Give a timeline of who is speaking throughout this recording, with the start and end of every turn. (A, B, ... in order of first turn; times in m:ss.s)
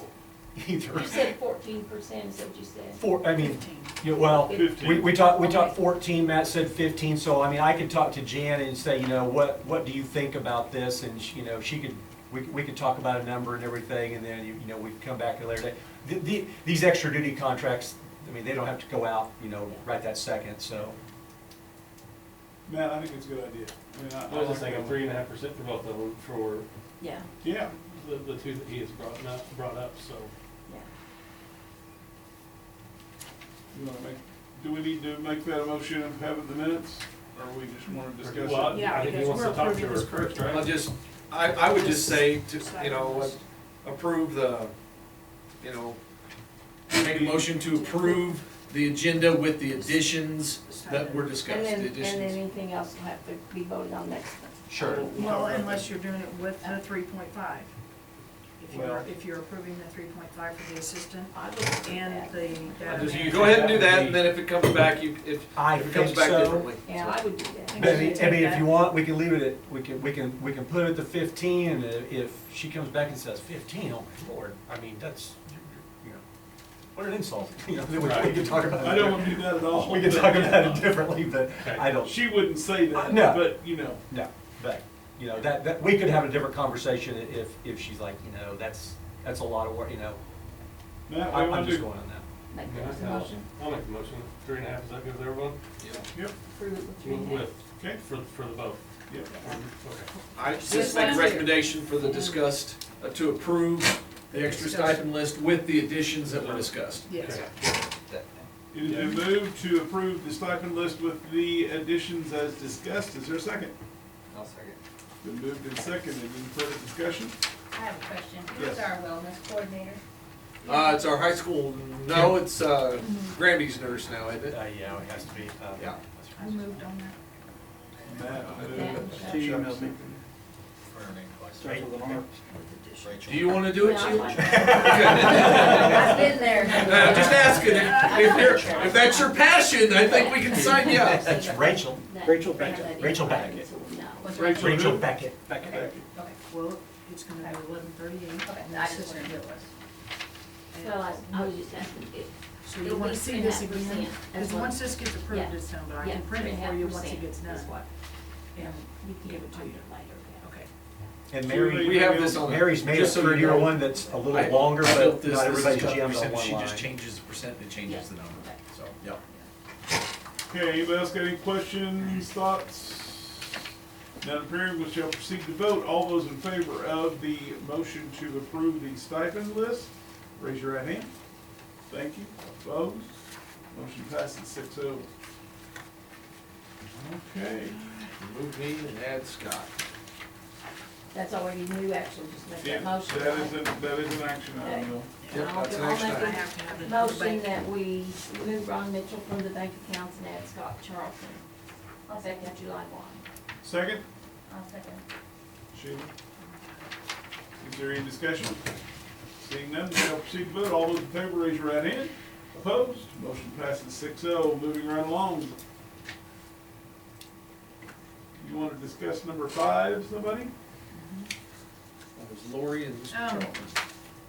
0:00.6-0:01.3 A
0:00.9-0:03.0 B
0:03.0-0:21.0 A
0:03.4-0:03.9 C
0:04.2-0:05.8 B
0:04.5-0:05.1 D
0:22.7-0:25.0 D
0:24.3-0:26.7 E
0:27.0-0:27.3 B
0:27.4-0:27.8 D
0:27.8-0:30.3 E
0:33.7-0:38.8 D
0:38.2-0:40.8 E
0:38.6-0:40.4 C
0:40.5-0:44.7 F
0:41.6-0:43.4 C
0:45.6-0:46.0 F
0:46.9-0:52.4 F
0:46.9-0:47.5 D
0:47.7-0:48.1 C
0:49.8-0:51.3 C
0:51.4-0:55.1 B
0:54.7-0:55.1 A
0:54.9-0:55.9 D
0:55.1-0:57.7 C
0:58.6-1:03.6 C
0:58.7-0:59.1 D
1:01.3-1:03.6 B
1:02.9-1:04.2 E
1:03.3-1:07.2 F
1:05.6-1:06.7 A
1:06.8-1:08.2 B
1:07.7-1:08.8 C
1:07.8-1:16.2 A
1:16.9-1:22.2 A
1:18.0-1:18.4 E
1:18.8-1:21.0 D
1:21.6-1:21.9 E
1:22.0-1:24.0 D
1:22.9-1:30.2 A
1:31.1-1:31.9 D
1:31.2-1:32.2 A
1:32.5-1:33.5 B
1:32.6-1:35.6 E
1:36.5-1:37.6 B
1:37.0-1:40.1 E
1:37.8-1:38.0 D
1:39.3-1:39.6 B
1:40.4-1:48.4 F
1:40.6-1:41.5 C
1:40.6-1:41.3 B
1:44.6-1:44.9 C
1:46.2-1:47.5 E
1:47.1-1:47.4 C
1:48.7-1:53.7 D
1:48.8-1:49.3 E
1:54.3-1:54.8 F
1:55.2-1:57.4 D
1:57.7-2:00.0 G
1:58.5-1:58.8 D
2:00.6-2:04.6 F
2:04.5-2:06.8 A
2:06.4-2:07.2 C
2:08.0-2:10.2 D
2:08.4-2:09.8 H
2:08.5-2:09.7 F
2:08.6-2:09.4 B
2:10.9-2:11.8 H
2:11.6-2:12.2 A
2:11.7-2:12.2 D
2:12.5-2:13.2 C
2:13.0-2:14.0 H
2:13.3-2:21.4 F
2:13.7-2:19.2 B
2:14.4-2:16.4 A
2:15.4-2:19.3 G
2:17.0-2:17.4 A
2:17.2-2:17.6 H
2:17.5-2:18.9 C
2:19.8-2:24.4 B
2:20.6-2:23.7 A
2:24.2-2:24.9 G
2:24.4-2:25.0 D
2:24.5-2:25.9 A
2:25.7-2:26.0 D
2:26.5-2:29.4 C
2:28.4-2:29.7 G
2:30.7-2:31.5 C
2:30.8-2:37.8 B
2:32.6-2:37.8 C
2:38.6-2:39.9 C
2:38.6-2:40.4 B
2:40.4-2:40.7 C
2:41.3-2:46.9 A
2:41.4-2:42.4 D
2:41.8-2:49.2 F
2:47.8-2:48.6 B
2:50.5-2:53.5 D
2:54.2-3:01.1 D
3:01.9-3:03.2 D
3:03.7-3:05.1 D
3:07.0-3:08.0 D
3:08.2-3:09.7 F
3:11.1-3:13.9 B
3:12.6-3:15.2 D
3:14.6-3:14.9 B
3:15.2-3:17.6 C
3:15.3-3:16.4 F
3:15.8-3:21.4 B
3:22.1-3:22.4 G
3:22.1-3:23.2 B
3:23.6-3:24.0 D
3:24.5-3:25.0 G
3:25.7-3:26.1 D
3:26.4-3:26.9 C
3:27.6-3:28.6 D
3:29.4-3:35.6 D
3:38.4-3:40.5 D
3:40.9-3:41.3 C
3:42.2-3:43.7 F
3:43.1-3:43.6 C